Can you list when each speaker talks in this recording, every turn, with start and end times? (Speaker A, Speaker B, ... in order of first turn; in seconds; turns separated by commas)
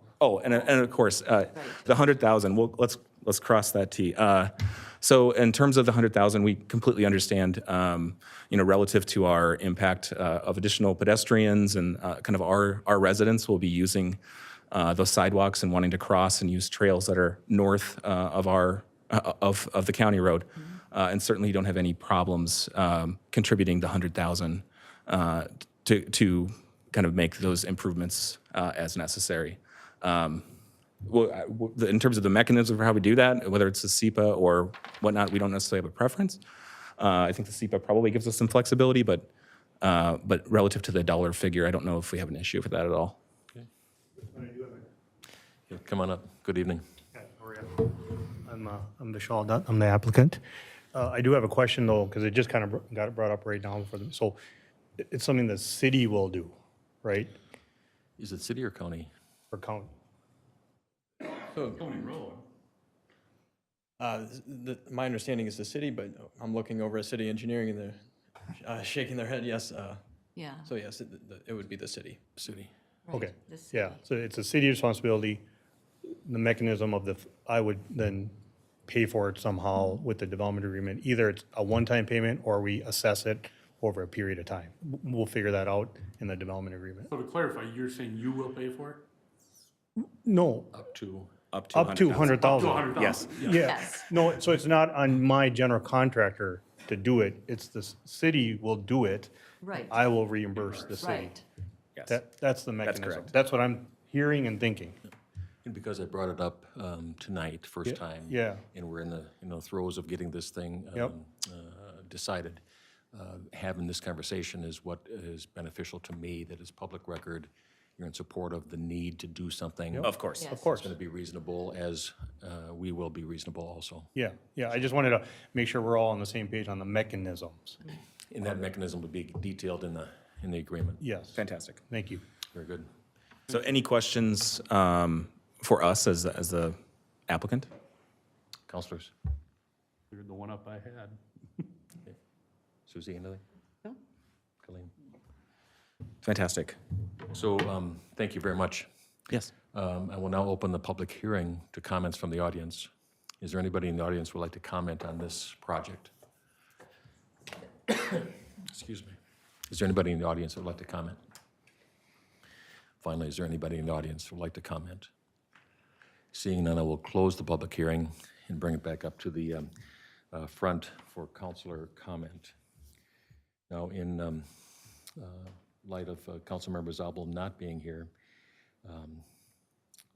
Speaker A: 0.2-14.2, Speaker A: 14.7-30.5, Speaker A: 31.0-36.4, Speaker A: 37.0-39.3, Speaker A: 39.8-43.2, Speaker B: 44.3-44.9, Speaker C: 45.7-46.8, Speaker B: 47.1-50.4, Speaker B: 50.9-54.4, Speaker B: 55.0-57.3, Speaker C: 58.2-59.1, Speaker B: 59.5-59.9, Speaker D: 61.5-62.1, Speaker E: 61.8-62.4, Speaker D: 64.0-70.0, Speaker F: 70.3-70.7, Speaker D: 70.6-72.2, Speaker C: 72.4-72.7, Speaker F: 73.1-74.0, Speaker B: 73.1-75.5, Speaker B: 76.1-78.3, Speaker B: 78.9-87.1, Speaker E: 87.1-89.0, Speaker B: 90.0-90.7, Speaker C: 90.7-91.3, Speaker A: 91.5-93.6, Speaker B: 91.7-99.3, Speaker E: 92.4-93.7, Speaker F: 93.5-94.1, Speaker F: 99.6-100.0, Speaker B: 99.9-101.4, Speaker E: 100.5-101.2, Speaker F: 101.0-101.4, Speaker B: 102.1-105.0, Speaker A: 102.8-103.3, Speaker C: 105.6-124.1, Speaker B: 107.9-108.6, Speaker B: 119.9-120.9, Speaker A: 120.0-120.4, Speaker F: 120.3-120.7, Speaker B: 124.1-127.8, Speaker C: 128.3-131.0, Speaker B: 131.0-132.2, Speaker A: 131.3-131.8, Speaker C: 132.5-132.9, Speaker A: 133.5-136.8, Speaker A: 137.3-137.7, Speaker C: 138.7-139.1, Speaker E: 140.1-141.6, Speaker C: 142.9-143.4, Speaker C: 144.6-144.9, Speaker A: 146.2-146.8, Speaker C: 147.3-148.9, Speaker C: 149.7-152.9, Speaker C: 153.4-156.1, Speaker C: 157.9-159.2, Speaker C: 159.7-161.2, Speaker C: 163.0-165.1, Speaker C: 166.3-169.7, Speaker C: 170.3-172.5, Speaker C: 173.7-174.4, Speaker C: 175.2-178.1, Speaker C: 178.8-179.2